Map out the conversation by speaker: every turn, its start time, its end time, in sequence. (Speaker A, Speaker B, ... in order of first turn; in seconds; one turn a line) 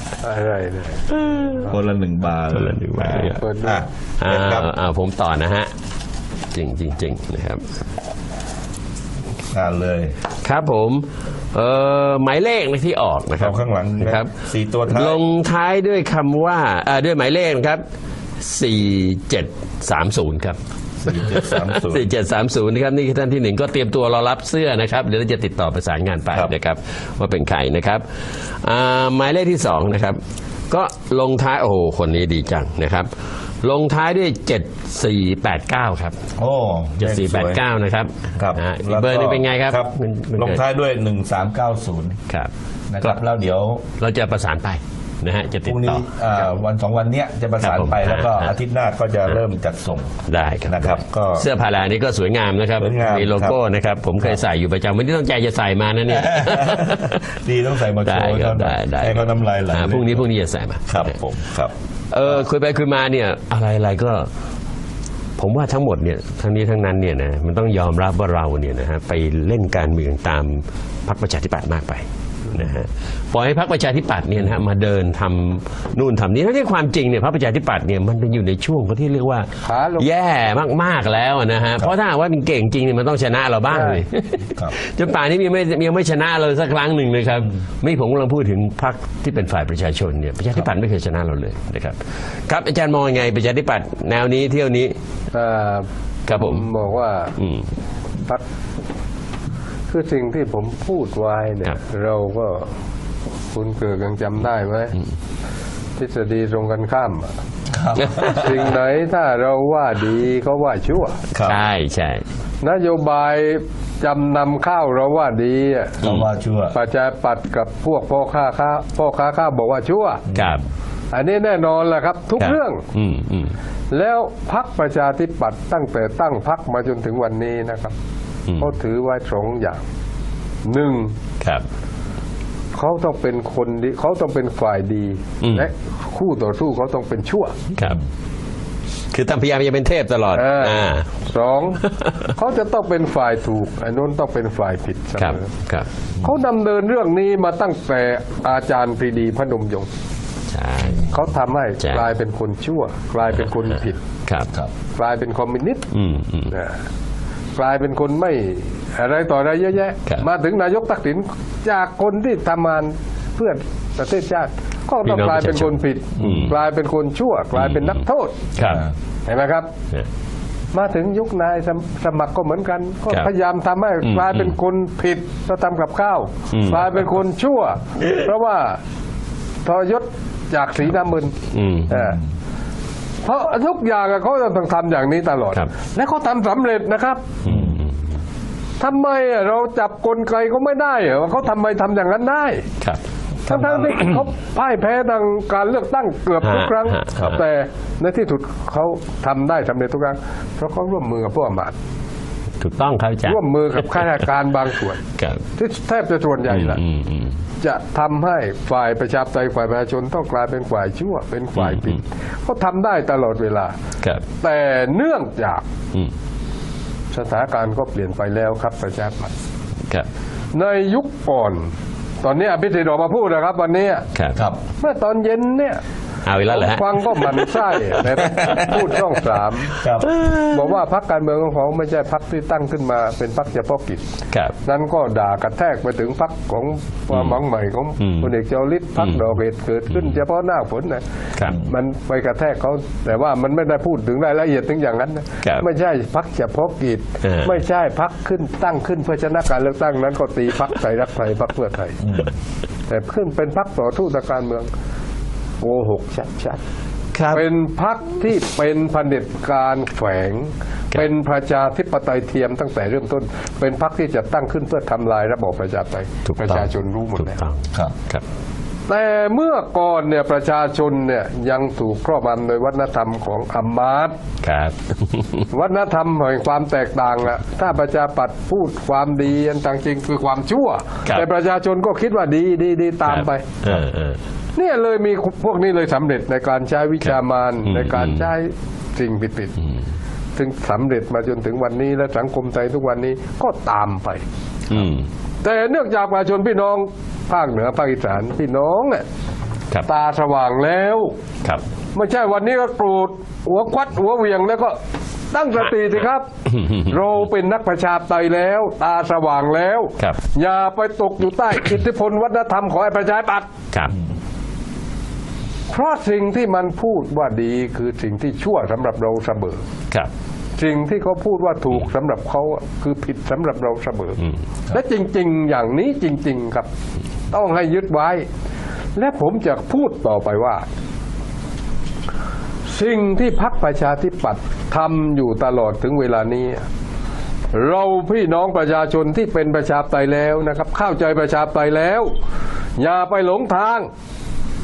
Speaker A: 0.2-1.5
Speaker B: 1.1-1.6
Speaker C: 1.6-4.7
Speaker B: 2.5-3.4
Speaker A: 3.2-3.8
Speaker B: 4.2-5.7
Speaker B: 6.5-7.6
Speaker C: 9.5-10.2
Speaker B: 10.4-14.3
Speaker C: 13.4-15.2
Speaker B: 14.9-17.8
Speaker B: 18.4-20.6
Speaker C: 21.0-22.1
Speaker B: 21.1-30.2
Speaker B: 30.7-33.1
Speaker B: 33.6-36.2
Speaker C: 36.4-37.6
Speaker B: 37.0-40.6
Speaker C: 38.4-42.2
Speaker C: 42.9-43.9
Speaker B: 44.0-46.5
Speaker C: 45.6-51.5
Speaker B: 47.6-48.5
Speaker B: 50.3-57.2
Speaker C: 52.8-53.6
Speaker C: 56.1-60.3
Speaker B: 58.0-61.1
Speaker C: 60.9-61.7
Speaker B: 62.1-64.3
Speaker B: 65.4-95.0
Speaker A: 79.6-80.1
Speaker A: 83.7-84.0
Speaker C: 84.5-84.8
Speaker A: 95.3-97.3
Speaker B: 96.3-96.7
Speaker B: 97.4-97.7
Speaker A: 99.9-102.7
Speaker A: 103.5-105.0
Speaker A: 106.0-107.3
Speaker C: 107.7-108.7
Speaker A: 108.3-111.2
Speaker C: 111.3-111.7
Speaker B: 111.4-112.2
Speaker A: 112.6-116.0
Speaker C: 116.0-116.8
Speaker A: 116.7-120.2
Speaker C: 120.3-120.6
Speaker B: 120.3-120.6
Speaker A: 121.1-122.9
Speaker B: 122.4-123.5
Speaker A: 123.9-127.9
Speaker B: 128.5-128.7
Speaker A: 128.6-129.8
Speaker A: 130.6-131.2
Speaker A: 132.8-137.6
Speaker B: 135.4-135.7
Speaker B: 137.8-138.0
Speaker B: 139.1-141.1
Speaker A: 140.3-145.5
Speaker B: 141.8-142.3
Speaker B: 145.2-145.9
Speaker A: 146.2-149.9
Speaker B: 150.5-151.3
Speaker A: 151.1-154.0
Speaker B: 151.8-152.1
Speaker A: 154.9-155.9
Speaker B: 155.9-156.5
Speaker A: 156.5-156.8
Speaker A: 157.5-168.4
Speaker B: 165.0-166.5
Speaker C: 166.2-166.5
Speaker B: 167.6-168.0
Speaker B: 168.6-168.8
Speaker A: 169.2-169.7
Speaker A: 170.7-178.8
Speaker B: 174.0-174.5
Speaker B: 176.5-176.9
Speaker A: 179.6-181.3
Speaker B: 181.5-182.0
Speaker A: 181.9-182.2
Speaker A: 183.2-187.2
Speaker B: 187.4-187.9
Speaker C: 187.5-187.7
Speaker A: 188.8-192.7
Speaker A: 193.5-201.7
Speaker C: 193.5-193.8
Speaker B: 196.4-197.4
Speaker B: 202.6-204.1
Speaker A: 203.2-205.0
Speaker A: 205.5-206.8
Speaker B: 206.5-207.3
Speaker A: 207.6-213.8
Speaker B: 211.6-212.0
Speaker A: 214.4-215.6
Speaker A: 217.1-219.3
Speaker A: 220.5-221.7
Speaker A: 222.2-224.1
Speaker B: 224.1-224.4
Speaker A: 224.8-225.8
Speaker B: 226.2-227.5
Speaker A: 226.4-229.8
Speaker C: 228.3-228.8
Speaker C: 229.8-230.1
Speaker B: 230.1-230.4
Speaker A: 230.3-234.0
Speaker A: 234.6-252.0
Speaker B: 237.1-237.4
Speaker B: 238.0-238.3
Speaker B: 239.9-240.2
Speaker B: 247.2-247.5
Speaker C: 252.0-252.3
Speaker A: 252.9-254.7
Speaker A: 255.6-256.6
Speaker B: 257.1-257.4
Speaker A: 257.3-267.4
Speaker B: 266.3-268.2
Speaker A: 268.9-274.1
Speaker B: 274.4-275.5
Speaker A: 275.5-283.5
Speaker B: 283.1-284.2
Speaker A: 284.6-289.6
Speaker B: 287.6-288.3
Speaker A: 290.4-294.2
Speaker B: 294.7-295.1
Speaker A: 295.4-299.0
Speaker A: 299.8-301.2
Speaker A: 301.9-304.8
Speaker A: 305.3-313.5
Speaker A: 315.7-319.6
Speaker A: 320.6-326.7
Speaker A: 327.3-328.2
Speaker A: 328.9-330.6
Speaker A: 332.6-336.6
Speaker A: 337.5-342.1
Speaker A: 342.8-343.9